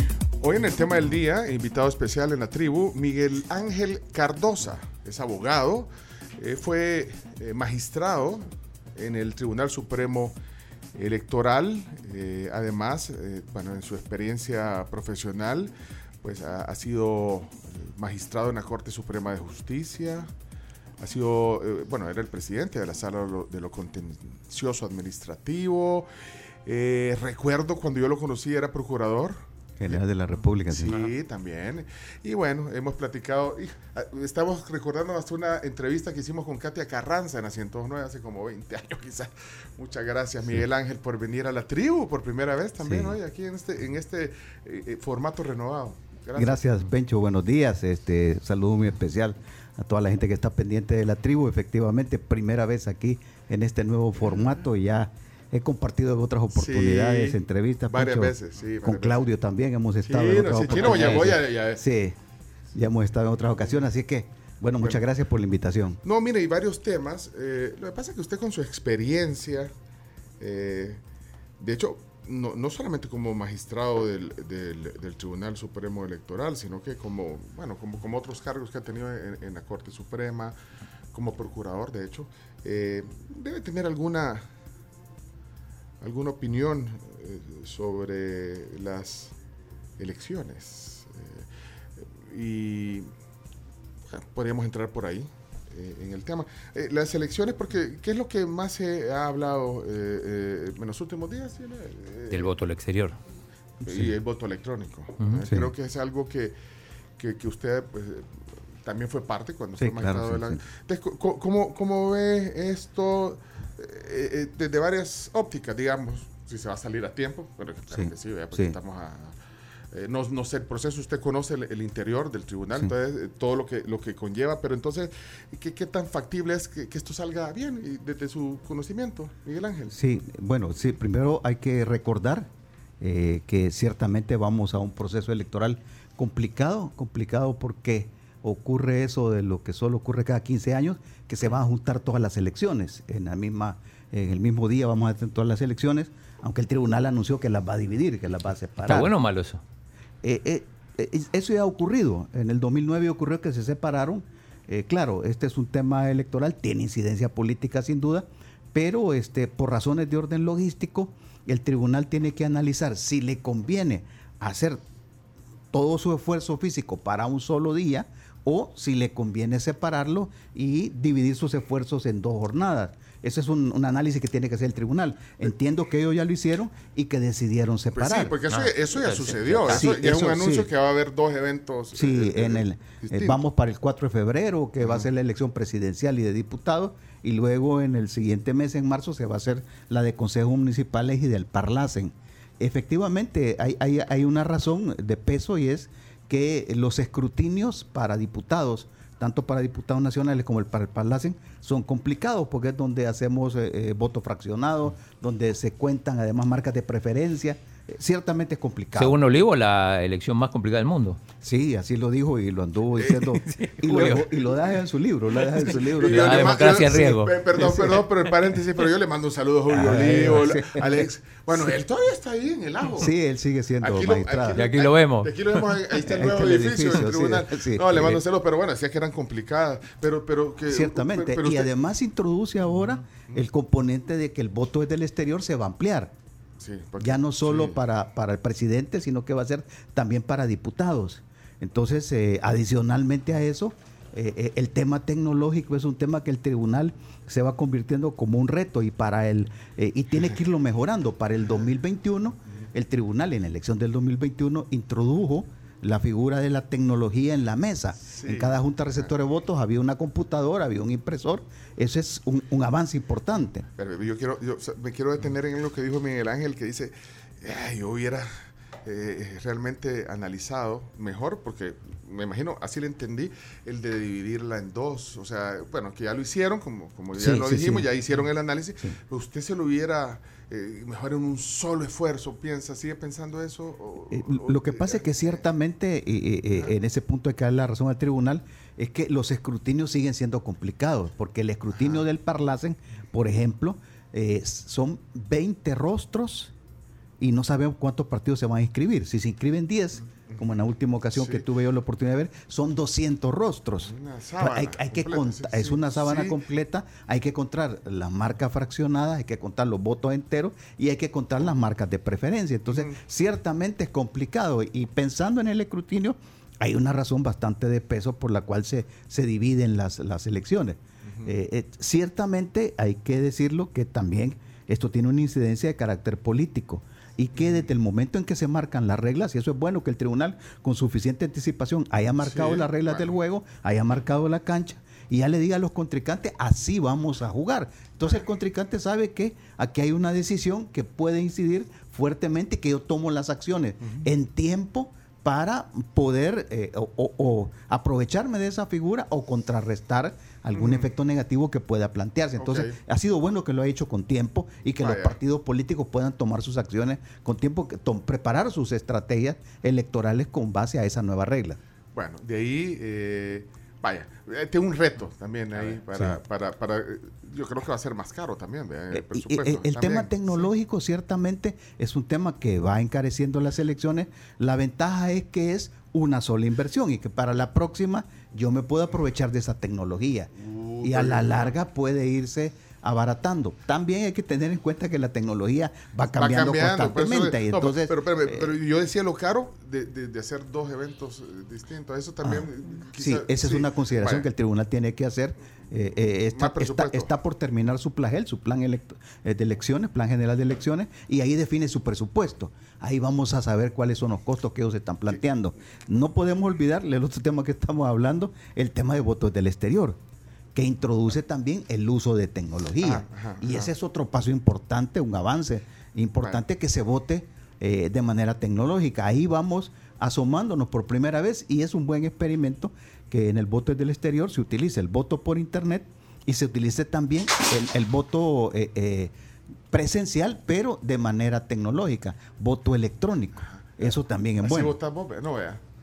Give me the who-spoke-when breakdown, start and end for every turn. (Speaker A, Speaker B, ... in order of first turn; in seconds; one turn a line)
Speaker A: 0.4-8.4
Speaker A: 9.0-10.3
Speaker A: 11.0-20.3
Speaker A: 21.0-26.1
Speaker A: 26.7-30.0
Speaker B: 29.8-31.1
Speaker A: 30.7-46.6
Speaker B: 42.8-43.2
Speaker B: 46.4-62.2
Speaker A: 56.5-59.2
Speaker A: 60.0-61.8
Speaker C: 60.8-61.2
Speaker B: 62.7-66.0
Speaker A: 66.0-69.7
Speaker A: 70.4-71.0
Speaker A: 71.6-80.5
Speaker A: 81.1-84.5
Speaker A: 86.0-89.3
Speaker A: 90.0-93.1
Speaker A: 94.1-102.5
Speaker C: 102.3-103.2
Speaker B: 103.8-104.1
Speaker A: 103.8-106.5
Speaker B: 105.5-105.7
Speaker A: 107.2-108.3
Speaker A: 108.8-119.3
Speaker B: 109.8-110.6
Speaker B: 117.9-118.8
Speaker A: 119.9-129.9
Speaker B: 129.9-132.5
Speaker B: 133.0-149.1
Speaker C: 148.8-149.6
Speaker B: 150.2-164.8
Speaker B: 165.7-178.4
Speaker A: 177.9-183.4
Speaker C: 178.5-179.9
Speaker B: 179.7-180.7
Speaker B: 181.9-209.2
Speaker A: 184.8-185.1
Speaker C: 208.9-211.2
Speaker B: 211.4-218.0
Speaker A: 213.0-214.6
Speaker C: 213.4-214.2
Speaker A: 215.6-223.1
Speaker C: 216.0-217.3
Speaker B: 219.7-221.1
Speaker B: 223.0-224.6
Speaker A: 223.8-231.7
Speaker C: 224.5-225.6
Speaker B: 226.0-228.2
Speaker B: 230.7-236.1
Speaker A: 236.6-237.8
Speaker B: 237.0-263.7
Speaker A: 258.1-259.1
Speaker A: 263.8-285.4
Speaker B: 277.2-277.9
Speaker B: 284.1-296.5
Speaker A: 291.7-292.1
Speaker B: 297.2-361.6
Speaker A: 300.2-300.6
Speaker A: 301.1-301.4
Speaker A: 303.9-306.4
Speaker A: 312.7-313.0
Speaker A: 321.1-321.4
Speaker A: 327.4-327.7
Speaker A: 332.2-333.1
Speaker A: 350.5-350.9
Speaker A: 352.4-352.8
Speaker A: 354.8-355.2
Speaker A: 361.9-370.5
Speaker B: 365.9-366.2
Speaker B: 368.9-380.3
Speaker A: 380.4-381.5
Speaker B: 380.8-388.5
Speaker A: 386.2-394.3
Speaker B: 392.2-410.0
Speaker A: 396.3-397.1
Speaker B: 410.6-429.1
Speaker A: 412.8-413.7
Speaker B: 429.7-434.8
Speaker A: 433.5-435.6